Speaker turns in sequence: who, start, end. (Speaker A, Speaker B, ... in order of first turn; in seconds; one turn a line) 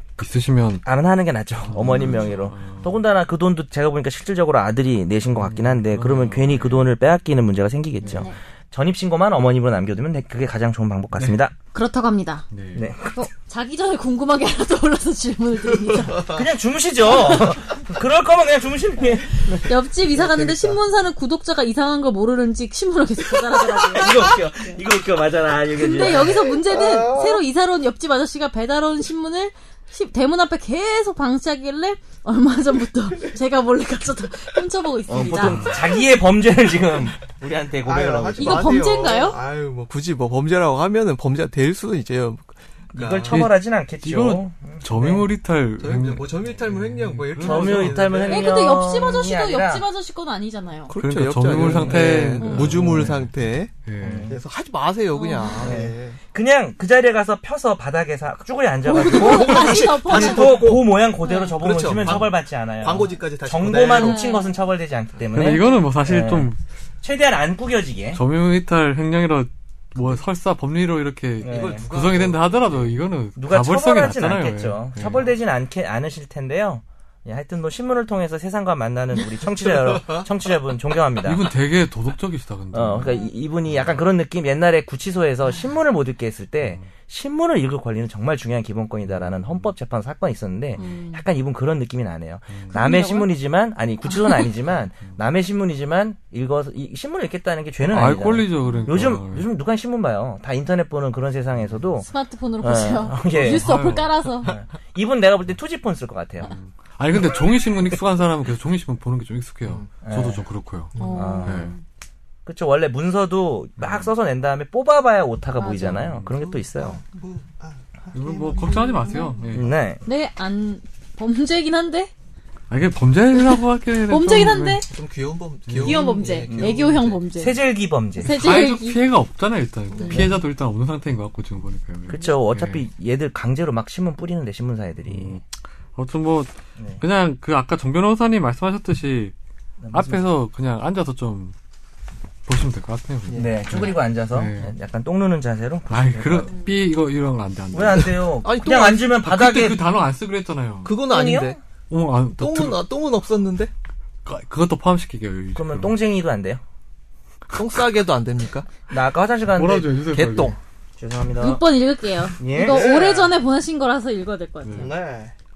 Speaker A: 0.2-0.8
Speaker B: 0.8-11.5
Speaker A: 1.6-3.0
Speaker A: 5.3-6.9
Speaker A: 8.0-8.3
Speaker C: 8.1-8.4
Speaker C: 11.7-12.4
Speaker A: 12.5-12.9
Speaker B: 12.8-13.2
Speaker C: 13.1-16.4
Speaker D: 15.8-16.4
Speaker B: 16.3-19.7
Speaker C: 17.1-17.5
Speaker C: 19.3-24.8
Speaker D: 20.1-20.8
Speaker B: 23.8-26.6
Speaker C: 25.7-35.7
Speaker D: 26.7-27.4
Speaker B: 35.1-38.8
Speaker A: 35.3-35.8
Speaker D: 37.8-43.5
Speaker C: 38.4-39.4
Speaker B: 42.9-45.2
Speaker A: 43.3-48.2
Speaker D: 45.8-48.6
Speaker B: 47.4-49.9
Speaker C: 48.2-50.9
Speaker D: 50.9-53.7
Speaker A: 51.0-53.3
Speaker B: 51.6-52.4
Speaker C: 52.4-52.8
Speaker A: 53.8-54.4
Speaker B: 54.0-54.4
Speaker D: 54.2-56.2
Speaker C: 55.1-55.8
Speaker B: 55.6-66.5
Speaker C: 58.9-61.5
Speaker D: 58.9-61.0
Speaker D: 61.6-64.3
Speaker A: 62.0-62.3
Speaker C: 63.9-64.6
Speaker A: 65.3-66.6
Speaker B: 67.0-68.2
Speaker A: 68.1-75.3
Speaker B: 71.4-72.2
Speaker D: 71.4-72.7
Speaker B: 73.4-81.4
Speaker D: 79.5-80.2
Speaker A: 81.2-83.9
Speaker B: 82.7-102.1
Speaker A: 86.6-86.9
Speaker A: 89.1-89.7
Speaker C: 90.8-91.2
Speaker C: 92.7-93.3
Speaker C: 94.1-94.5
Speaker A: 97.9-99.5
Speaker C: 98.6-99.0
Speaker C: 102.1-104.5
Speaker B: 102.6-103.7
Speaker A: 103.3-104.1
Speaker B: 104.5-106.5
Speaker A: 106.4-111.0
Speaker D: 109.7-109.9
Speaker B: 110.0-110.4
Speaker D: 111.0-111.4
Speaker C: 111.0-111.8
Speaker B: 111.0-111.7
Speaker A: 111.5-111.7
Speaker B: 112.5-117.0
Speaker A: 113.8-114.1
Speaker C: 115.6-116.0
Speaker A: 115.8-116.3
Speaker D: 116.3-119.4
Speaker A: 118.1-119.7
Speaker C: 119.1-119.4
Speaker B: 119.5-120.0
Speaker C: 120.0-122.1
Speaker A: 122.7-124.8
Speaker C: 123.3-124.9
Speaker D: 124.9-127.2
Speaker A: 125.7-126.0
Speaker C: 125.8-127.6
Speaker B: 126.5-126.8
Speaker B: 127.4-128.5
Speaker C: 128.2-129.0
Speaker A: 128.2-132.8
Speaker D: 129.9-130.3
Speaker B: 132.1-135.4
Speaker A: 135.1-139.3
Speaker B: 136.8-137.0
Speaker B: 139.8-140.2
Speaker A: 139.9-141.5
Speaker A: 142.5-144.7
Speaker D: 143.3-143.6
Speaker B: 143.3-146.6
Speaker A: 145.9-148.3
Speaker B: 147.7-149.8
Speaker D: 148.4-149.8
Speaker A: 149.3-151.0
Speaker D: 150.8-151.6
Speaker B: 151.1-151.6
Speaker A: 151.9-152.8
Speaker D: 152.4-153.7
Speaker A: 154.2-156.0
Speaker B: 155.6-156.6
Speaker D: 157.5-158.7
Speaker B: 158.9-159.9
Speaker A: 159.6-160.6
Speaker D: 160.1-160.6
Speaker B: 161.0-161.6
Speaker C: 161.4-164.9
Speaker B: 162.4-163.2
Speaker D: 162.6-163.3
Speaker A: 164.6-164.9
Speaker D: 164.8-165.3